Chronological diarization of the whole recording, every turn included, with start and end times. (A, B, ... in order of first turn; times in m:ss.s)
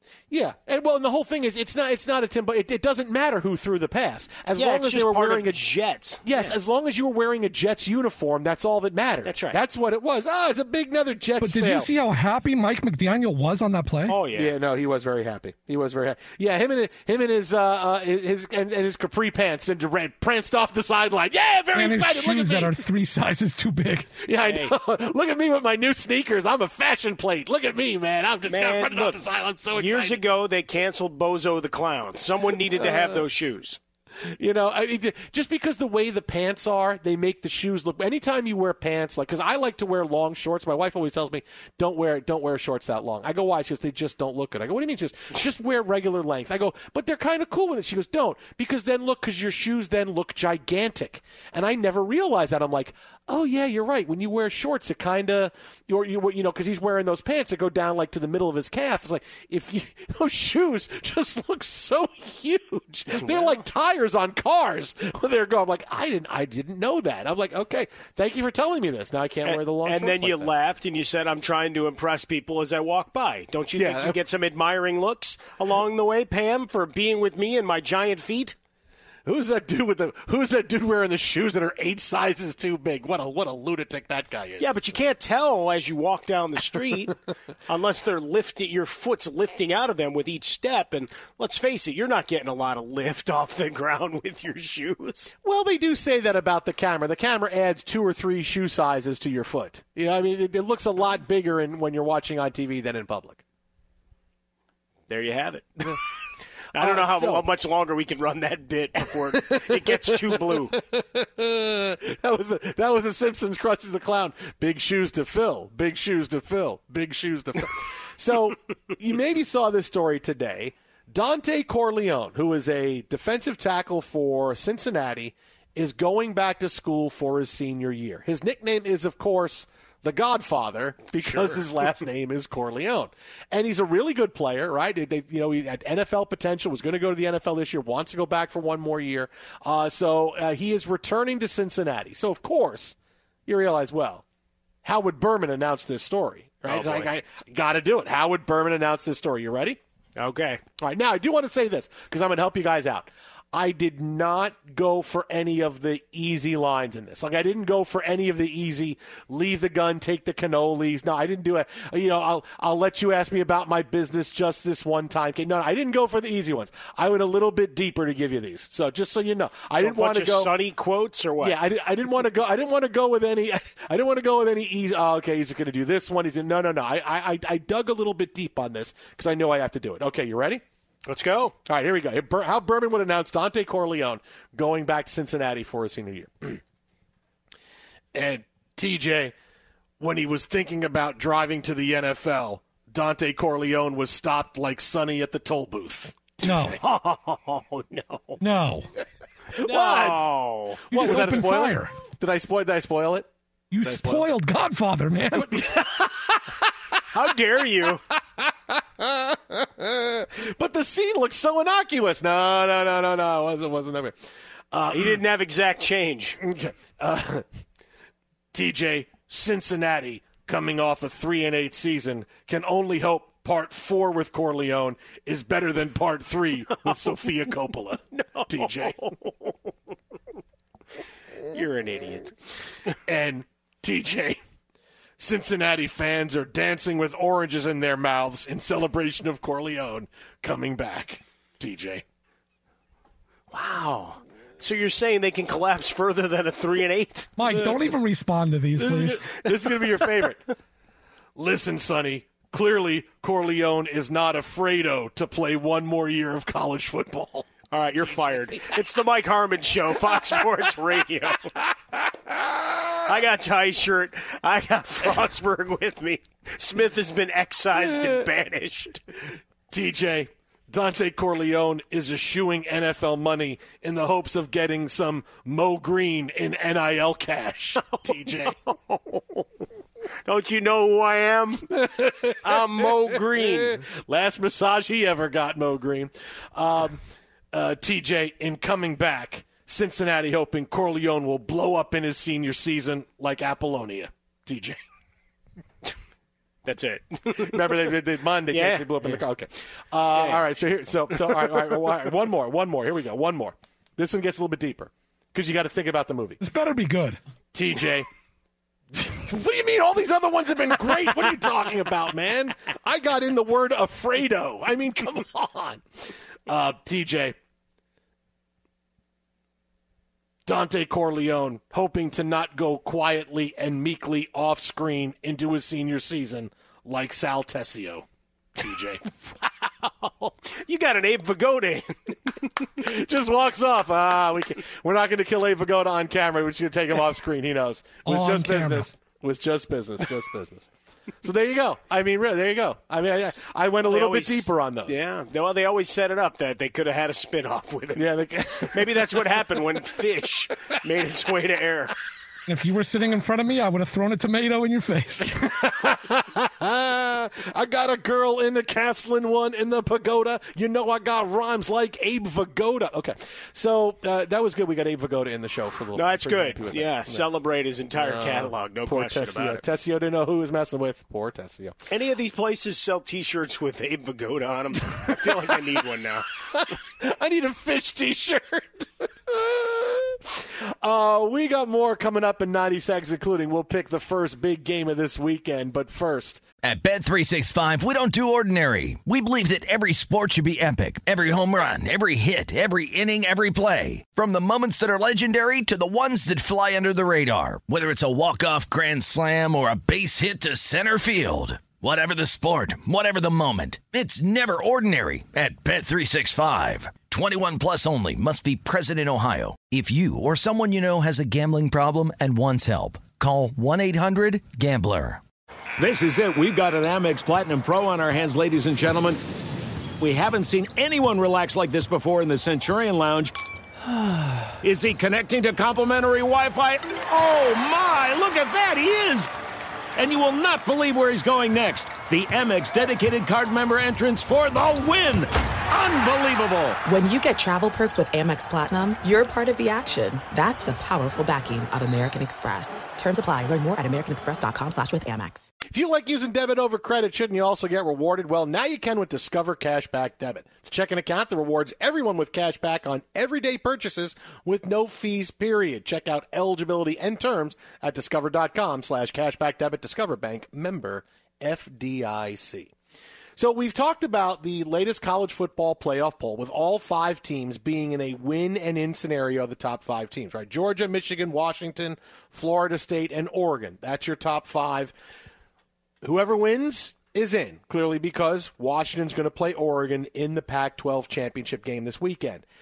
0:00.3-0:05.6 A
0:04.6-0:06.6 B
0:06.2-0:11.9 A
0:09.2-0:09.6 B
0:11.4-0:14.2 C
0:14.1-0:14.5 B
0:14.3-0:22.8 A
0:21.8-0:24.2 C
0:24.2-0:30.2 A
0:24.4-0:24.7 B
0:28.5-0:29.2 B
0:29.7-0:33.8 B
0:32.8-0:33.2 A
0:34.2-1:10.5 A
1:03.2-1:03.6 B
1:09.4-1:18.6 B
1:13.8-1:14.2 A
1:19.2-1:24.7 A
1:24.6-1:27.2 B
1:27.7-1:35.3 B
1:35.4-1:43.4 A
1:45.1-1:46.0 B
1:46.7-1:50.8 B
1:46.8-1:47.5 A
1:49.5-2:24.2 A
2:11.2-2:11.7 B
2:24.8-2:29.8 A
2:26.7-2:27.1 B
2:30.2-2:30.6 B
2:30.8-2:50.5 A
2:49.8-2:51.6 B
2:51.4-3:00.6 A
3:01.1-3:01.6 B
3:01.6-3:06.6 A
3:08.1-3:09.3 A
3:10.0-3:16.8 A
3:16.4-3:16.8 C
3:16.8-3:18.4 B
3:18.4-3:18.9 C
3:19.5-3:21.2 B
3:19.6-3:20.3 A
3:20.9-3:21.9 C
3:20.9-3:23.3 A
3:23.7-3:25.7 C
3:23.8-3:24.3 A
3:25.4-3:26.7 A
3:27.1-3:28.0 B
3:28.4-3:34.2 A
3:34.7-3:35.2 A
3:34.9-3:36.4 B
3:36.4-3:37.5 A
3:38.5-3:49.1 A
3:48.1-3:49.6 B
3:51.5-3:52.4 B
3:53.0-3:54.4 A
3:55.2-4:02.0 A
4:03.5-4:07.5 B
4:07.4-4:09.2 C
4:08.8-4:10.4 A
4:09.6-4:10.3 B
4:11.4-4:17.5 A
4:17.7-4:21.5 B
4:21.9-4:22.9 A
4:23.1-4:29.0 B
4:27.9-4:28.2 A
4:29.7-4:38.6 A
4:37.9-4:39.4 B
4:40.3-4:41.8 B
4:41.7-4:54.8 A
4:42.4-4:43.8 B
4:56.7-4:57.9 B
4:57.3-5:06.4 A
4:58.5-4:59.2 B
5:00.1-5:00.4 B
5:01.1-5:01.7 B
5:06.4-5:07.2 C
5:07.5-5:08.1 A
5:08.9-5:17.4 A
5:20.5-5:28.1 A
5:28.6-5:29.1 A
5:29.3-5:32.6 B
5:32.8-5:40.7 A
5:38.0-5:38.9 C
5:41.2-5:45.0 A
5:43.9-5:48.1 B
5:48.0-5:49.1 A
5:48.6-5:52.0 B
5:52.5-5:55.4 C
5:55.4-6:07.2 A
6:06.0-6:09.6 B
6:08.0-6:11.8 A
6:11.9-6:16.3 B
6:15.1-6:15.5 A
6:16.5-6:26.4 A
6:26.6-6:55.2 D
6:55.8-6:59.2 E
7:00.0-7:03.3 E
7:04.6-7:09.3 E
7:10.0-7:16.8 E
7:16.9-7:25.5 F
7:25.7-7:42.7 A
7:43.4-7:54.9 A
7:56.0-8:02.4 A